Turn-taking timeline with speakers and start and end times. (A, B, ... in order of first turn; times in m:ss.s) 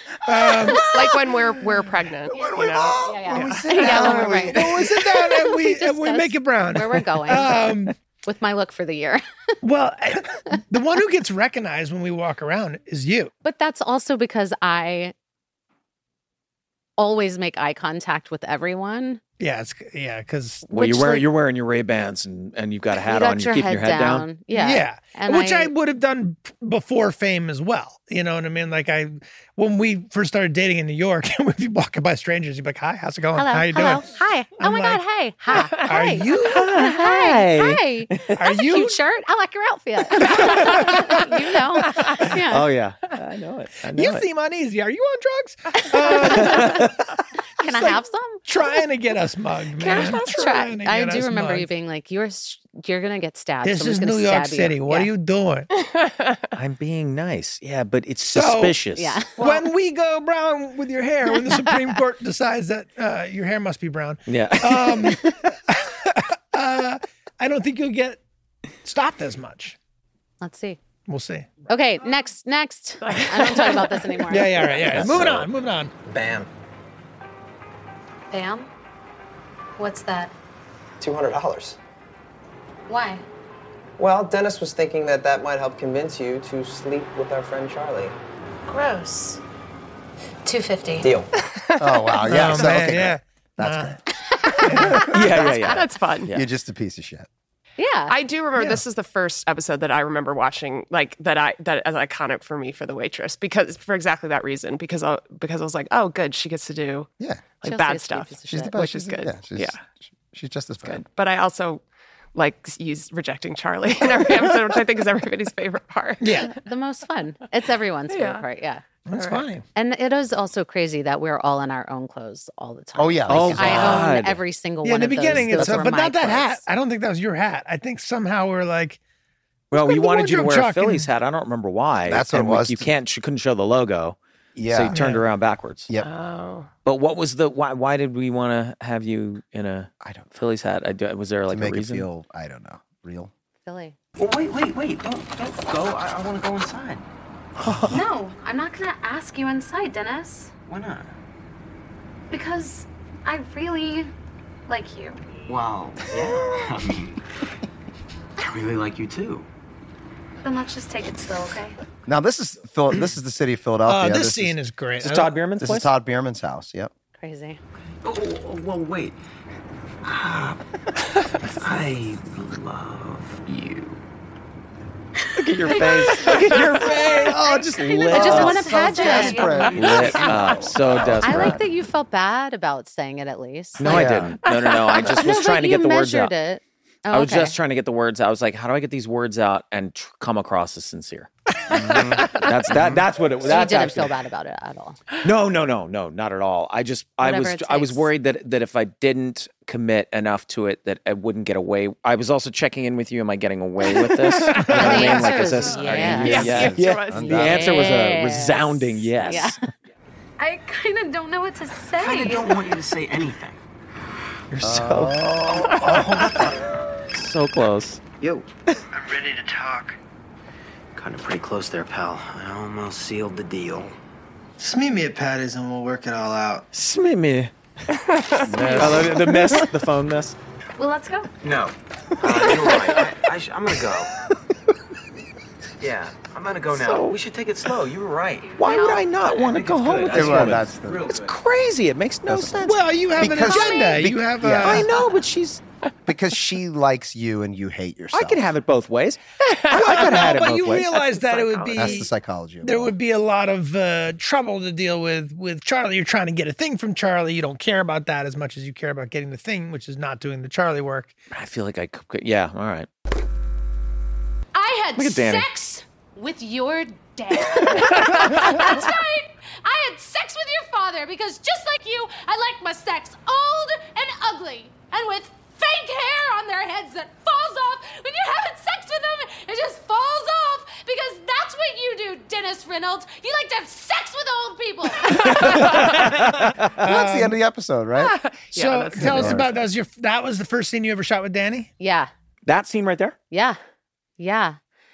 0:00.2-0:01.0 A
0:00.3-0:01.1 B
0:00.8-0:04.0 C
0:02.3-0:05.0 B
0:03.0-0:04.7 D
0:03.4-0:08.0 A
0:05.3-0:09.2 D
0:09.6-0:13.3 A
0:13.4-0:15.1 D
0:17.0-0:19.2 D
0:19.4-0:20.7 A
0:20.7-0:24.3 E
0:20.7-0:21.2 D
0:23.0-0:25.7 D
0:24.5-0:36.8 A
0:33.4-0:42.7 D
0:36.4-0:38.4 E
0:38.4-0:39.0 A
0:40.2-0:42.2 A
0:42.2-0:44.3 E
0:43.9-0:51.7 A
0:45.8-0:46.8 D
0:46.4-0:46.9 E
0:47.6-0:48.5 D
0:49.8-0:55.1 D
0:53.6-0:55.7 A
0:55.8-0:56.5 C
0:56.6-0:59.2 E
0:58.3-0:58.8 A
0:59.0-0:59.3 D
0:59.4-1:08.2 A
1:04.3-1:05.2 E
1:08.8-1:09.8 A
1:10.4-1:10.8 D
1:11.1-1:11.5 A
1:11.7-1:14.8 D
1:13.0-1:14.1 C
1:14.2-1:15.9 A
1:14.9-1:15.5 E
1:16.0-1:16.5 F
1:18.3-1:18.7 G
1:19.8-1:20.3 G
1:21.0-1:21.8 F
1:22.9-1:23.2 G
1:24.0-1:28.2 F
1:28.7-1:29.4 G
1:30.5-1:31.0 G
1:31.0-1:31.3 F
1:31.6-1:32.4 C
1:31.8-1:34.0 B
1:32.2-1:34.0 A
1:34.6-1:35.1 A
1:35.0-1:36.4 E
1:35.0-1:36.3 C
1:36.3-1:37.3 B
1:37.8-1:38.2 D
1:38.1-1:47.1 C
1:47.6-1:49.8 C
1:47.6-1:48.8 D
1:48.5-1:51.0 B
1:50.8-1:51.8 C
1:52.4-1:56.5 C
1:56.2-1:56.5 A
1:56.4-1:58.8 D
1:58.1-1:58.4 C
1:59.1-1:59.6 A
1:59.1-1:59.4 C
1:59.8-2:06.6 D
2:03.0-2:04.1 B
2:03.3-2:04.4 E
2:04.8-2:09.0 A
2:05.4-2:05.9 B
2:09.7-2:11.1 A
2:09.7-2:14.2 E
2:12.0-2:12.9 B
2:14.6-2:15.0 B
2:14.7-2:15.9 E
2:14.9-2:15.2 A
2:16.0-2:16.7 C
2:16.8-2:22.1 E
2:21.5-2:23.3 B
2:23.6-2:24.0 D
2:24.2-2:27.0 F
2:27.6-2:28.0 E
2:27.9-2:30.5 G
2:30.7-2:31.1 F
2:32.3-2:34.1 G
2:34.7-2:35.2 G
2:35.5-2:37.2 F
2:38.4-2:39.5 F
2:40.4-2:41.8 G
2:42.1-2:44.6 B
2:43.9-2:45.4 A
2:45.0-2:45.9 E
2:45.6-2:46.9 B
2:47.2-2:47.6 D
2:48.0-2:49.2 F
2:50.0-2:50.6 F
2:51.4-2:54.0 F
2:55.4-2:58.8 E
2:55.5-3:00.2 G
2:57.2-3:01.6 B
2:58.1-2:59.7 D
2:59.7-3:01.6 E
2:59.9-3:01.1 F
3:01.2-3:04.0 D
3:03.8-3:06.3 E
3:03.8-3:04.4 B
3:04.5-3:05.0 C
3:05.0-3:07.6 D
3:07.1-3:14.1 E
3:11.8-3:12.2 B
3:12.7-3:13.0 B
3:13.4-3:15.0 D
3:15.2-3:29.6 E
3:17.2-3:18.1 D
3:24.4-3:25.2 A
3:24.5-3:26.7 D
3:24.8-3:25.1 B
3:25.8-3:27.8 B
3:26.2-3:27.6 C
3:27.2-3:29.6 D
3:30.4-3:32.8 G
3:31.9-3:33.6 F
3:34.5-3:35.4 E
3:34.6-3:36.4 B
3:35.7-3:36.5 F
3:35.8-3:36.4 A
3:37.1-3:38.0 E
3:38.2-3:38.5 F
3:39.0-3:40.0 A
3:41.0-3:44.0 F
3:44.6-3:46.6 A
3:46.7-3:47.5 E
3:47.9-3:49.0 C
3:48.5-3:49.3 F
3:48.6-3:50.4 E
3:50.8-3:51.3 G
3:51.4-3:54.1 F
3:55.8-3:58.6 F
3:56.7-3:57.2 E
3:58.5-3:59.1 G
3:58.6-4:03.3 E
3:59.2-4:01.4 F
4:00.1-4:01.1 B
4:02.3-4:02.6 B
4:02.6-4:04.9 A
4:03.2-4:04.9 B
4:03.4-4:04.0 G
4:04.6-4:05.6 E
4:06.1-4:08.4 B
4:08.1-4:11.1 E
4:09.5-4:10.4 C
4:09.7-4:12.1 A
4:11.7-4:12.9 B
4:12.6-4:21.1 A
4:21.3-4:22.9 E
4:24.6-4:45.7 G
4:25.0-4:25.5 E
4:45.2-4:46.8 E
4:45.7-4:47.4 A
4:46.8-4:48.2 B
4:48.0-4:49.6 C
4:48.5-4:51.7 A
4:49.0-4:49.5 B
4:51.8-4:52.1 D
4:52.5-4:53.2 E
4:53.3-4:53.6 D
4:54.2-4:54.6 D